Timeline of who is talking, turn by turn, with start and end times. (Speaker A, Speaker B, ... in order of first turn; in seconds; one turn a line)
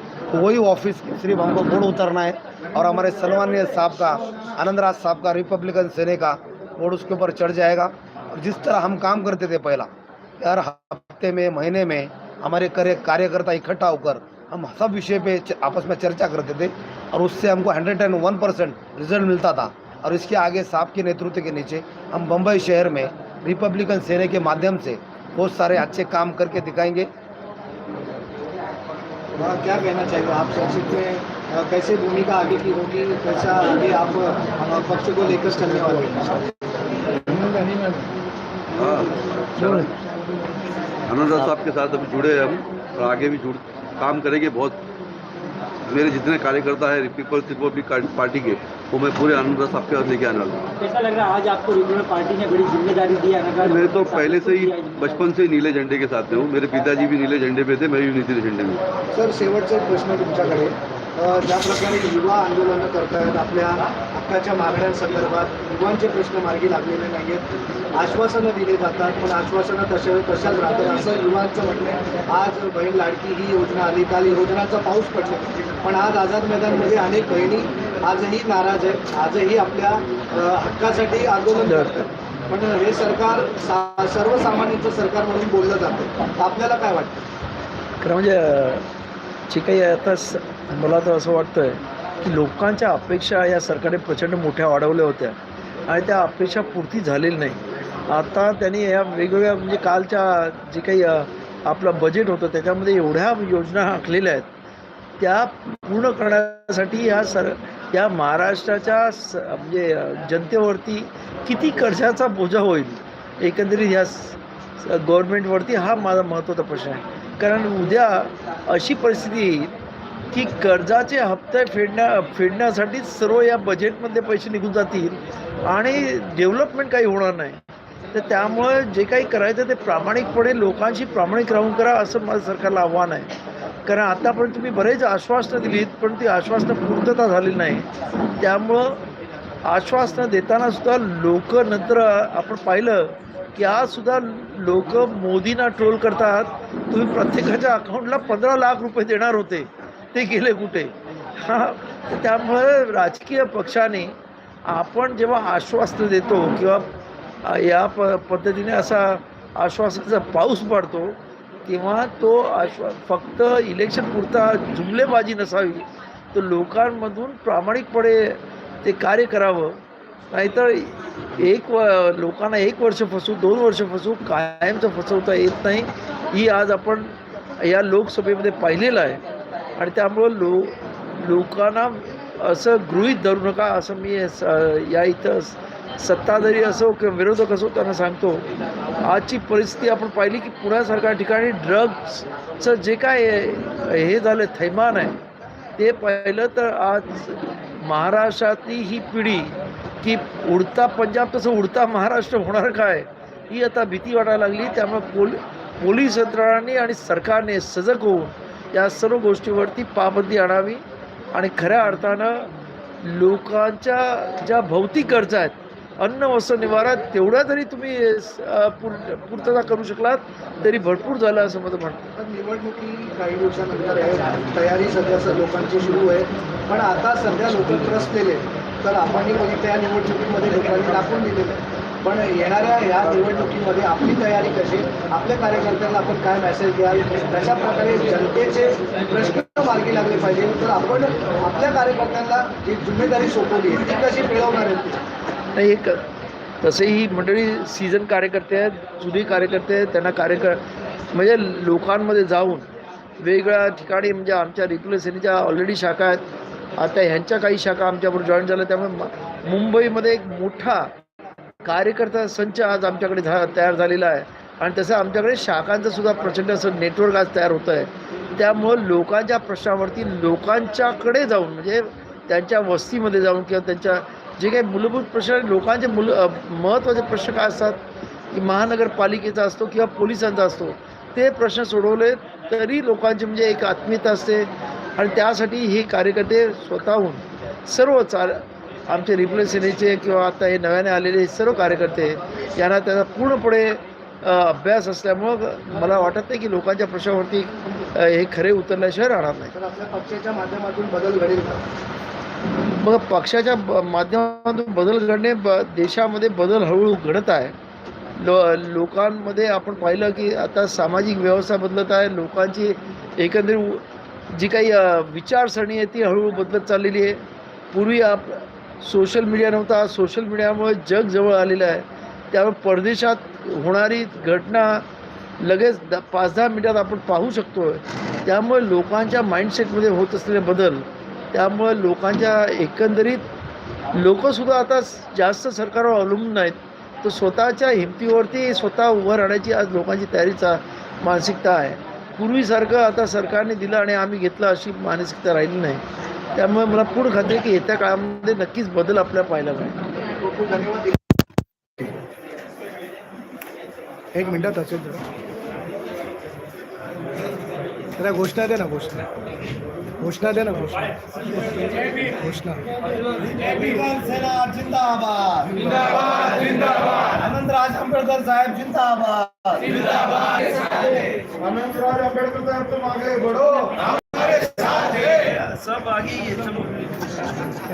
Speaker A: 0.3-27.1
Speaker B: 29.4-36.4
Speaker C: 38.7-39.9
Speaker C: 41.1-44.8
Speaker C: 45.9-50.7
Speaker D: 50.8-55.2
Speaker C: 53.7-58.8
Speaker B: 59.1-87.2
Speaker E: 81.6-82.0
Speaker E: 88.0-88.9
Speaker E: 89.5-104.5
Speaker E: 105.2-119.8
Speaker E: 120.3-127.6
Speaker E: 128.1-133.3
Speaker E: 133.8-139.0
Speaker E: 139.7-154.2
Speaker E: 154.7-156.9
Speaker E: 157.4-169.8
Speaker E: 170.3-179.2
Speaker E: 179.8-188.5
Speaker E: 189.0-195.2
Speaker E: 195.8-212.5
Speaker E: 213.0-222.1
Speaker B: 222.2-245.0
Speaker E: 245.5-246.0
Speaker E: 246.6-250.6
Speaker E: 251.1-252.7
Speaker E: 253.2-256.2
Speaker E: 256.8-260.9
Speaker E: 261.6-277.8
Speaker E: 278.3-299.5
Speaker B: 299.5-301.6
Speaker E: 302.5-307.5
Speaker E: 308.2-317.2
Speaker E: 317.7-324.8
Speaker E: 325.4-333.3
Speaker E: 333.9-345.8
Speaker E: 346.3-349.8
Speaker B: 350.2-351.0
Speaker B: 354.1-355.0
Speaker B: 358.0-359.0
Speaker B: 360.0-362.6
Speaker A: 363.1-375.2
Speaker E: 375.2-377.2